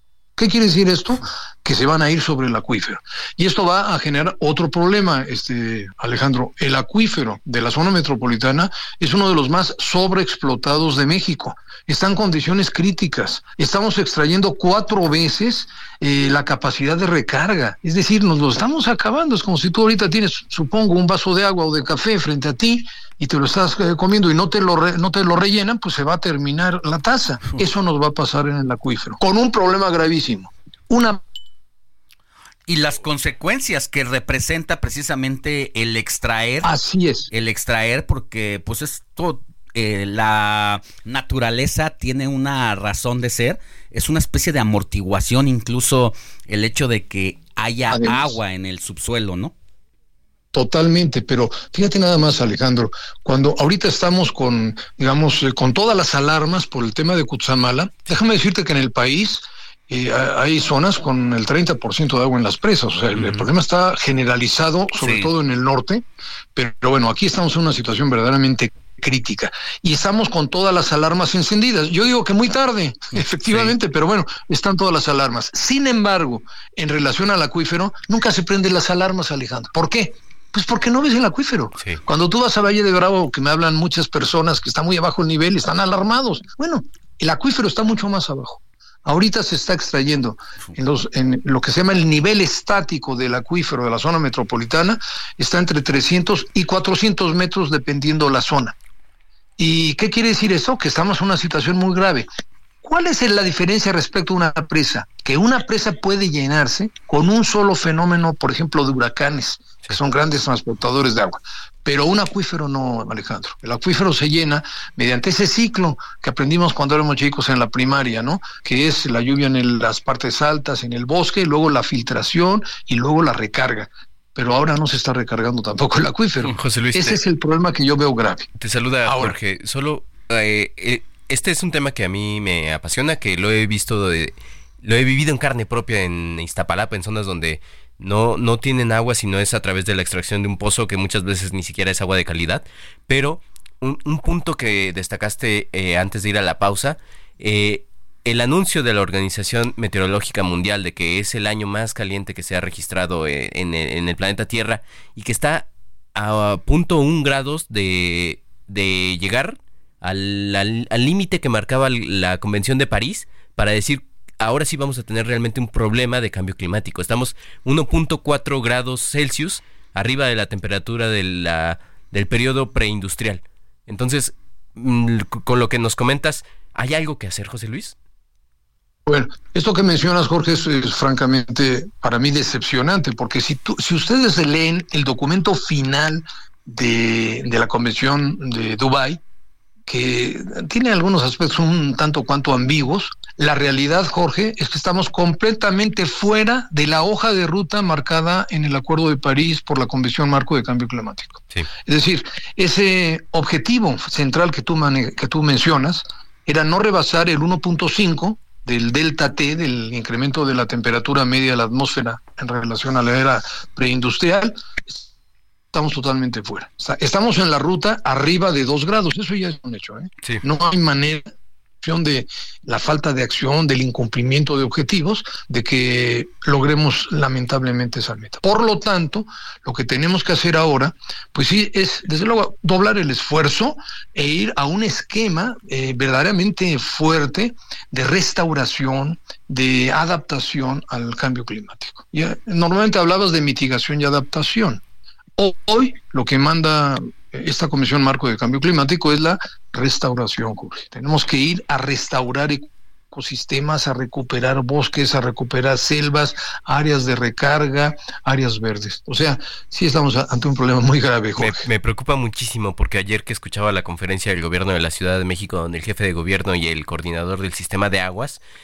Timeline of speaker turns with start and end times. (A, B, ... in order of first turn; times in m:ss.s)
0:00.4-0:31.2 A
0:32.7-0:36.7 B
0:36.6-0:37.3 A
0:37.3-0:49.5 B
0:47.9-0:48.4 A
0:50.5-1:06.0 A
1:03.1-1:03.4 B
1:05.0-1:05.3 B
1:06.5-1:38.7 A
1:13.2-1:13.7 B
1:39.6-1:42.3 A
1:42.8-2:08.5 A
2:06.4-2:07.2 C
2:08.6-2:57.9 C
2:09.0-2:09.4 A
2:59.1-3:09.2 A
3:09.9-3:35.0 A
3:35.7-3:41.3 A
3:41.8-4:04.8 A
4:05.4-4:21.6 A
4:21.4-4:28.4 C